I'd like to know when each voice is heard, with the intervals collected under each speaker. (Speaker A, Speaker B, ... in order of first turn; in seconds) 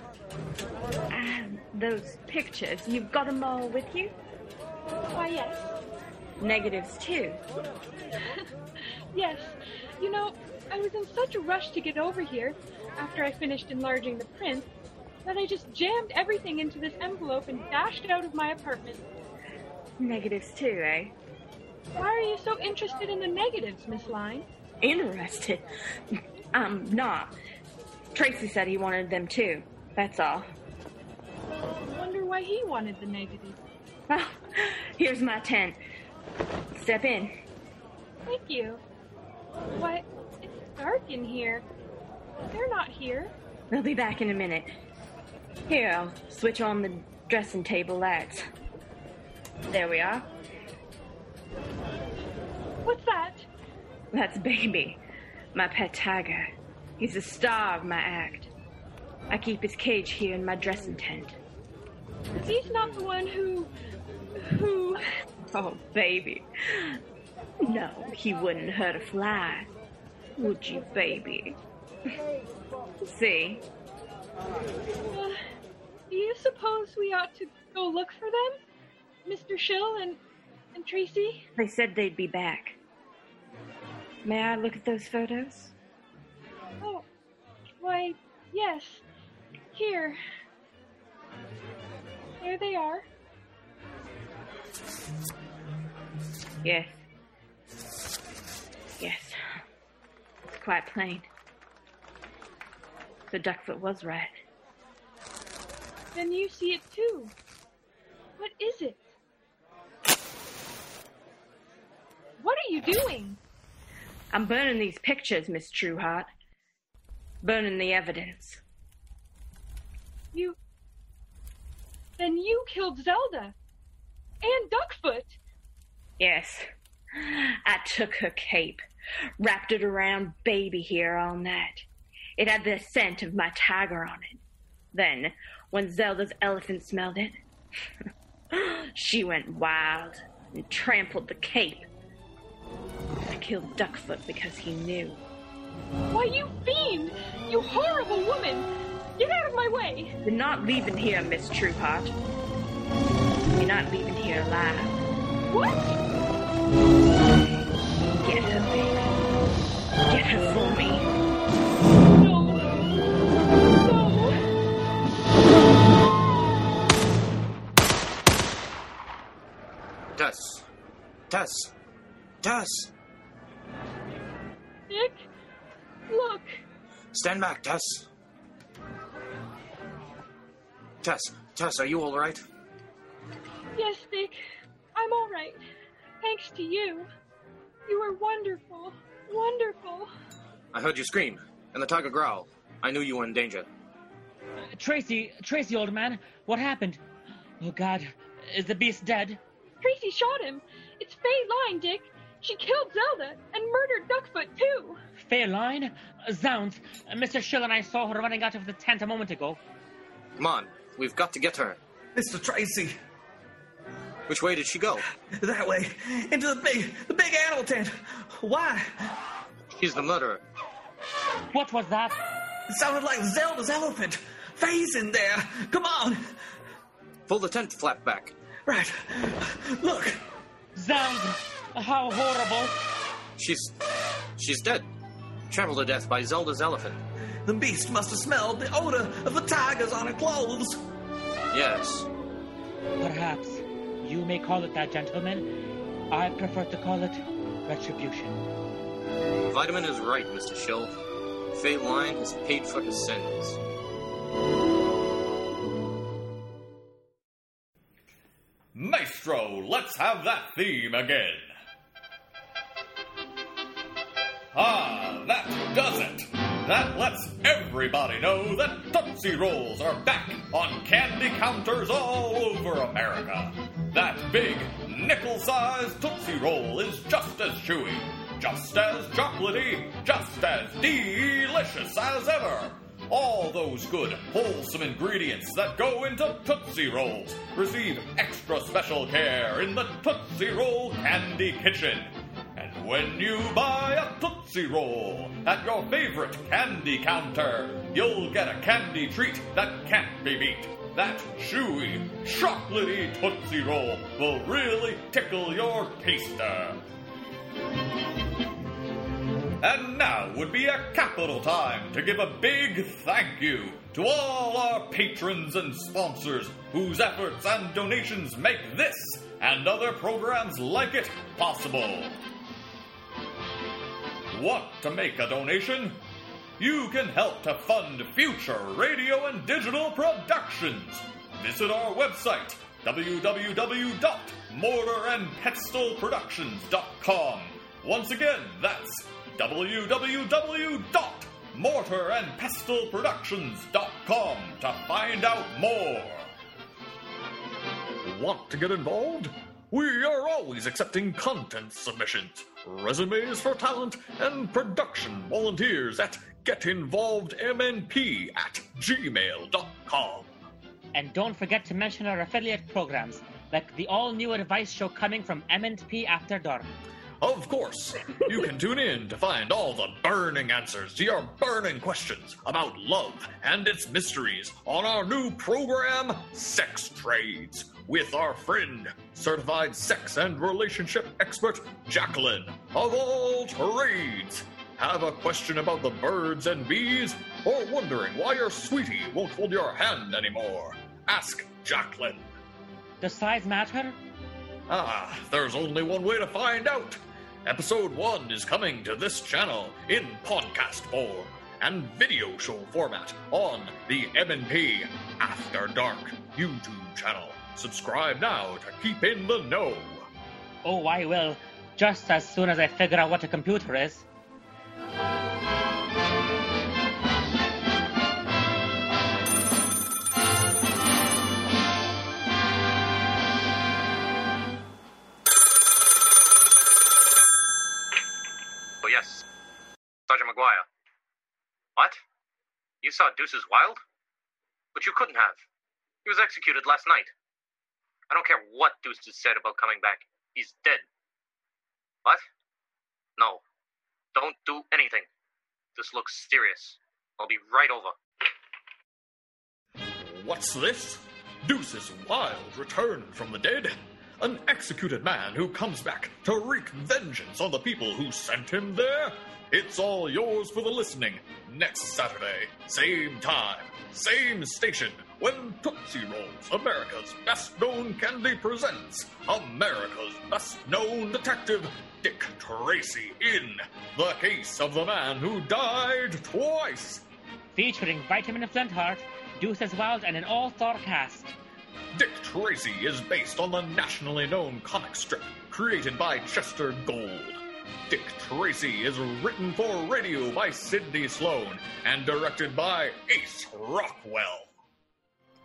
Speaker A: 1.1-4.1, 6.4-7.4, 20.0-21.1, 24.8-25.7, 26.5-27.3, 28.1-30.5, 34.1-35.8, 36.7-37.3, 43.7-44.7, 45.7-48.5, 49.7-50.3, 54.1-55.0, 55.5-58.5, 59.3-61.4, 65.5-67.0, 67.6-69.7, 70.4-71.6, 73.0-73.7, 81.6-82.8, 84.2-85.7, 96.6-97.0, 99.0-99.4, 100.5-101.3, 103.3-104.3, 114.3-116.3, 117.4-118.6, 126.2-128.8, 129.4-131.8, 132.4-134.4, 134.9-137.4, 138.5-141.9, 143.3-145.2, 150.2-152.2, 153.6-155.0, 157.3-159.2, 160.1-161.1
Speaker B: 5.1-5.8, 9.1-14.7, 15.2-19.0, 22.0-24.4, 31.9-33.6, 38.3-38.8, 39.8-41.6, 42.5-43.3, 52.8-53.5, 62.3-63.7, 64.4-65.0, 75.1-75.4, 76.1-78.6, 79.2-80.2, 80.8-81.5, 86.8-87.1, 87.8-89.0, 89.7-90.2, 92.4-93.1, 106.1-107.3, 108.4-109.1, 112.4-113.4, 122.2-123.5, 124.4-125.4, 146.1-150.2, 155.5-156.0, 162.2-163.1, 163.8-164.4, 174.9-175.2, 176.1-176.6, 183.8-184.4, 184.9-185.6, 186.2-187.1, 187.9-190.1, 199.8-205.0
Speaker C: 170.2-170.7, 171.3-171.7, 172.4-172.9, 177.1-178.1, 181.0-182.4, 190.7-193.7, 210.4-211.8, 214.3-215.1, 219.7-220.4, 227.3-228.3, 233.4-233.7, 234.4-234.9, 235.5-237.0, 241.5-242.1, 249.5-250.9, 251.5-253.6, 428.8-429.2, 430.1-430.7, 432.8-433.8, 434.8-435.4, 436.1-437.1, 438.1-440.8, 444.1-445.1, 445.8-447.9
Speaker D: 194.8-197.0, 197.6-199.4, 205.2-209.6, 221.5-222.2, 230.8-232.8, 243.0-245.5, 246.1-248.4, 360.9-366.7, 393.0-394.0, 410.6-414.1, 477.5-481.4
Speaker E: 212.2-212.9, 215.4-219.2, 222.7-226.2, 228.7-230.1, 237.5-240.7
Speaker F: 238.2-238.8, 258.8-261.6, 264.5-306.8, 309.6-322.2, 324.3-326.0, 326.6-346.3, 348.0-360.3, 367.2-392.3, 394.7-410.1, 450.0-477.1, 481.9-494.5